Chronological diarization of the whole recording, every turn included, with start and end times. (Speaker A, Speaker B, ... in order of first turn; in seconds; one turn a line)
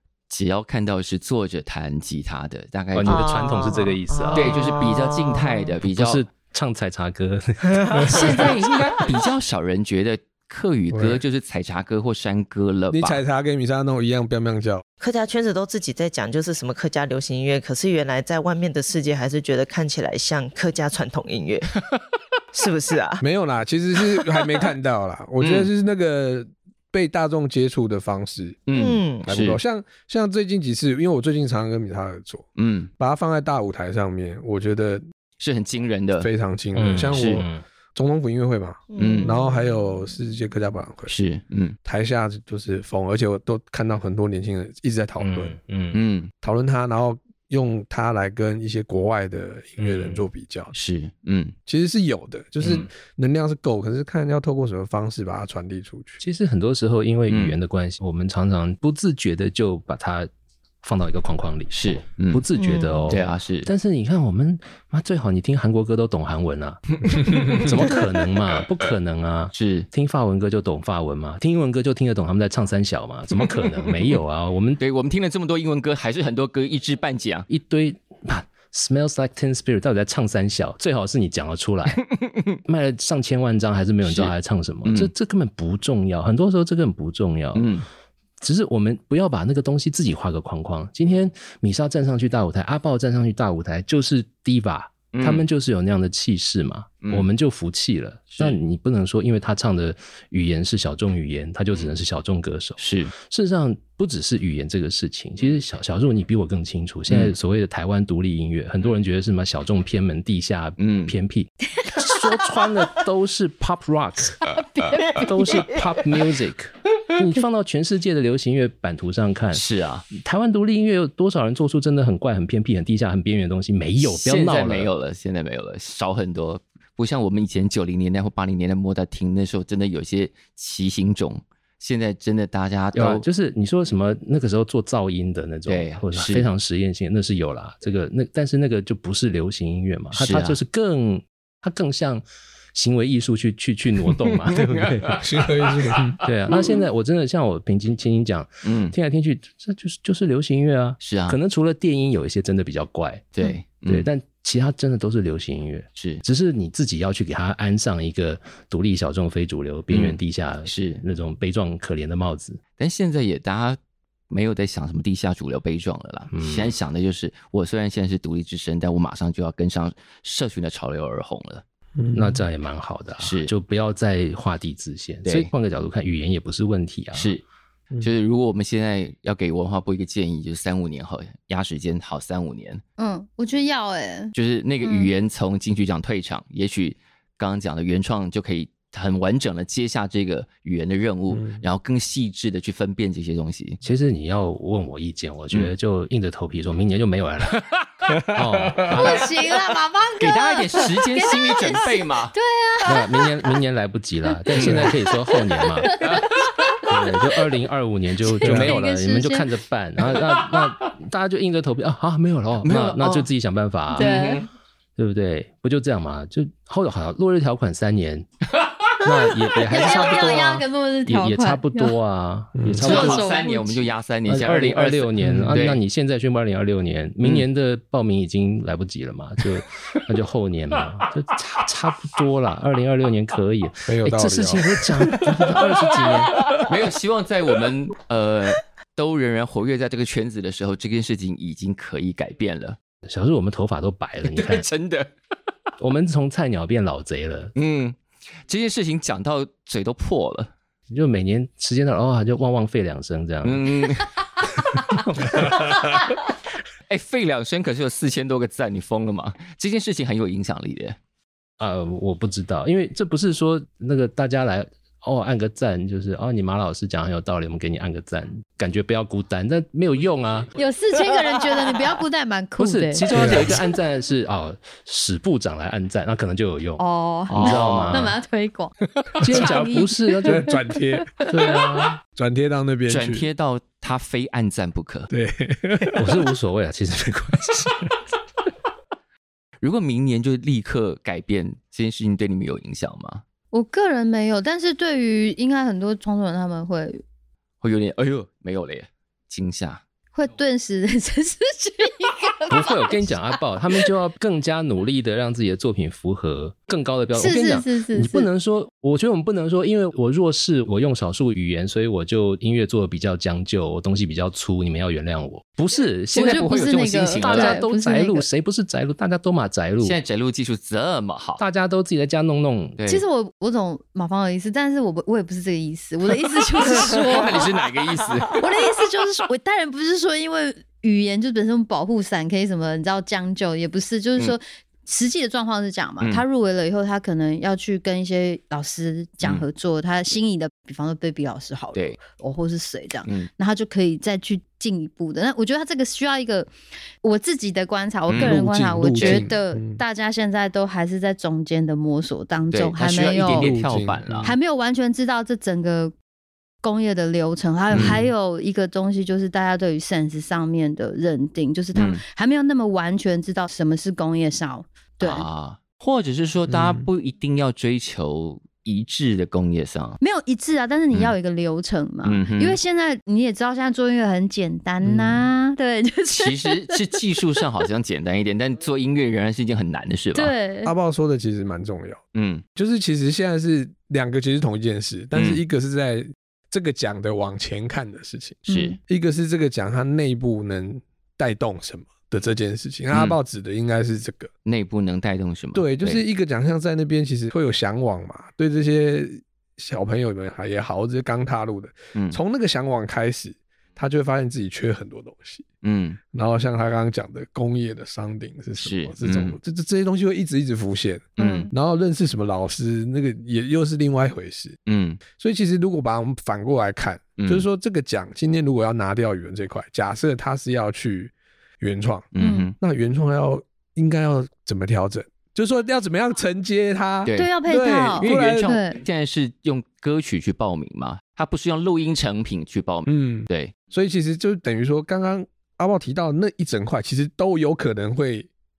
Speaker A: 0.3-3.3
Speaker B: 2.9-4.5
Speaker C: 3.0-5.6
Speaker A: 4.3-6.2
Speaker B: 5.8-8.2
Speaker C: 7.6-8.5
Speaker D: 7.9-8.5
Speaker A: 8.1-13.2
Speaker D: 10.9-11.2
Speaker D: 12.9-14.8
Speaker C: 15.0-21.7
Speaker C: 22.5-23.2
Speaker D: 23.2-28.6
Speaker A: 25.4-25.7
Speaker A: 28.7-29.6
Speaker C: 28.7-29.3
Speaker D: 29.2-35.0
Speaker A: 32.5-32.9
Speaker A: 35.4-36.3
Speaker D: 36.2-41.1
Speaker B: 36.7-37.6
Speaker A: 37.1-37.4
Speaker C: 38.9-39.5
Speaker A: 39.0-39.4
Speaker A: 41.1-41.8
Speaker D: 41.8-45.5
Speaker B: 45.2-46.0
Speaker A: 45.9-46.3
Speaker D: 46.4-50.7
Speaker B: 49.8-50.2
Speaker A: 50.7-51.5
Speaker D: 51.7-56.2
Speaker A: 52.6-52.9
Speaker B: 56.2-60.3
Speaker A: 57.3-57.5
Speaker B: 60.8-74.8
Speaker A: 61.7-62.4
Speaker C: 62.6-63.0
Speaker A: 63.1-63.7
Speaker A: 69.5-69.9
Speaker A: 74.8-77.5
Speaker B: 77.5-82.0
Speaker A: 82.1-82.6
Speaker B: 82.7-87.8
Speaker A: 84.0-84.3
Speaker A: 84.8-85.1
Speaker A: 87.5-87.8
Speaker B: 88.4-114.5
Speaker A: 95.1-95.4
Speaker A: 98.3-98.6
Speaker A: 102.8-103.1
Speaker A: 107.1-107.3
Speaker A: 110.8-111.1
Speaker E: 111.8-112.2
Speaker E: 114.5-115.8
Speaker B: 115.1-124.9
Speaker A: 119.5-120.1
Speaker A: 124.0-133.2
Speaker B: 132.9-142.2
Speaker A: 135.7-136.4
Speaker A: 140.1-140.6
Speaker B: 142.7-145.3
Speaker A: 144.5-145.2
Speaker D: 145.1-146.2
Speaker B: 146.2-153.3
Speaker A: 148.6-148.9
Speaker A: 151.0-151.4
Speaker A: 153.3-154.1
Speaker B: 153.8-162.6
Speaker A: 155.9-156.2
Speaker A: 159.9-161.0
Speaker A: 162.8-163.8
Speaker A: 164.3-171.6
Speaker B: 166.3-166.7
Speaker D: 172.0-172.4
Speaker B: 172.1-177.4
Speaker A: 173.2-173.5
Speaker A: 175.2-175.5
Speaker A: 177.1-177.4
Speaker A: 178.0-182.8
Speaker E: 183.0-185.1
Speaker A: 184.3-193.8
Speaker D: 191.3-191.6
Speaker B: 193.8-197.7
Speaker A: 197.5-198.1
Speaker B: 198.2-199.3
Speaker E: 198.9-203.5
Speaker A: 200.2-202.3
Speaker B: 202.8-206.1
Speaker A: 204.5-204.9
Speaker D: 204.6-204.9
Speaker E: 205.0-206.8
Speaker A: 206.0-206.2
Speaker B: 206.8-214.4
Speaker E: 208.3-209.5
Speaker D: 208.4-208.7
Speaker A: 210.1-210.9
Speaker A: 212.6-213.3
Speaker E: 213.9-214.4
Speaker A: 213.9-214.5
Speaker B: 215.0-218.3
Speaker B: 219.0-223.2
Speaker E: 219.6-221.9
Speaker D: 222.6-222.9
Speaker A: 222.8-225.8
Speaker E: 222.8-223.9
Speaker B: 224.2-236.5
Speaker D: 225.2-225.6
Speaker D: 233.8-234.9
Speaker A: 235.1-242.8
Speaker B: 243.1-244.7
Speaker A: 244.2-245.1
Speaker B: 245.8-247.5
Speaker A: 247.5-250.5
Speaker B: 250.9-253.9
Speaker A: 253.4-256.0
Speaker B: 255.2-255.5
Speaker A: 256.9-260.9
Speaker B: 261.6-270.5
Speaker E: 270.6-273.1
Speaker B: 272.6-278.2
Speaker D: 273.1-273.6
Speaker E: 276.8-281.5
Speaker A: 277.3-278.1
Speaker B: 279.2-280.5
Speaker D: 280.2-281.2
Speaker B: 281.2-282.0
Speaker D: 282.1-283.3
Speaker A: 282.9-285.1
Speaker D: 285.1-286.3
Speaker B: 285.9-287.9
Speaker A: 289.6-293.2
Speaker E: 293.5-297.0
Speaker A: 297.6-299.8
Speaker E: 300.1-303.9
Speaker B: 302.5-316.5
Speaker E: 307.1-308.3
Speaker A: 316.1-317.6
Speaker E: 316.1-318.2
Speaker B: 317.2-320.0
Speaker A: 319.8-321.4
Speaker B: 321.4-322.8
Speaker A: 322.8-323.0
Speaker E: 322.9-327.5
Speaker A: 326.6-328.4
Speaker E: 328.3-346.5
Speaker A: 341.7-342.0
Speaker E: 347.0-353.5
Speaker A: 348.1-348.4
Speaker D: 348.1-349.8
Speaker A: 348.9-349.2
Speaker A: 352.5-354.3
Speaker D: 353.2-354.4
Speaker E: 354.2-355.9
Speaker E: 356.6-365.2
Speaker D: 357.7-358.1
Speaker A: 357.7-358.0
Speaker A: 361.7-362.0
Speaker A: 365.0-370.0
Speaker D: 366.5-366.9
Speaker E: 370.0-377.0
Speaker A: 372.0-372.6
Speaker A: 376.1-380.3
Speaker E: 380.1-380.7
Speaker D: 380.6-382.0
Speaker A: 382.1-382.4
Speaker D: 382.6-394.3
Speaker A: 385.1-385.4
Speaker A: 388.5-388.8
Speaker E: 388.5-388.8
Speaker A: 392.9-393.2
Speaker A: 394.4-396.0
Speaker D: 395.5-405.4
Speaker A: 405.6-406.0
Speaker D: 406.1-414.6
Speaker A: 408.6-409.4
Speaker A: 411.2-411.5
Speaker E: 411.2-411.5
Speaker A: 414.7-415.0
Speaker D: 415.1-428.5
Speaker A: 417.2-417.4
Speaker A: 422.1-422.5
Speaker E: 422.2-422.5
Speaker A: 427.0-427.3
Speaker E: 427.1-428.8
Speaker A: 428.0-433.5
Speaker D: 432.9-438.3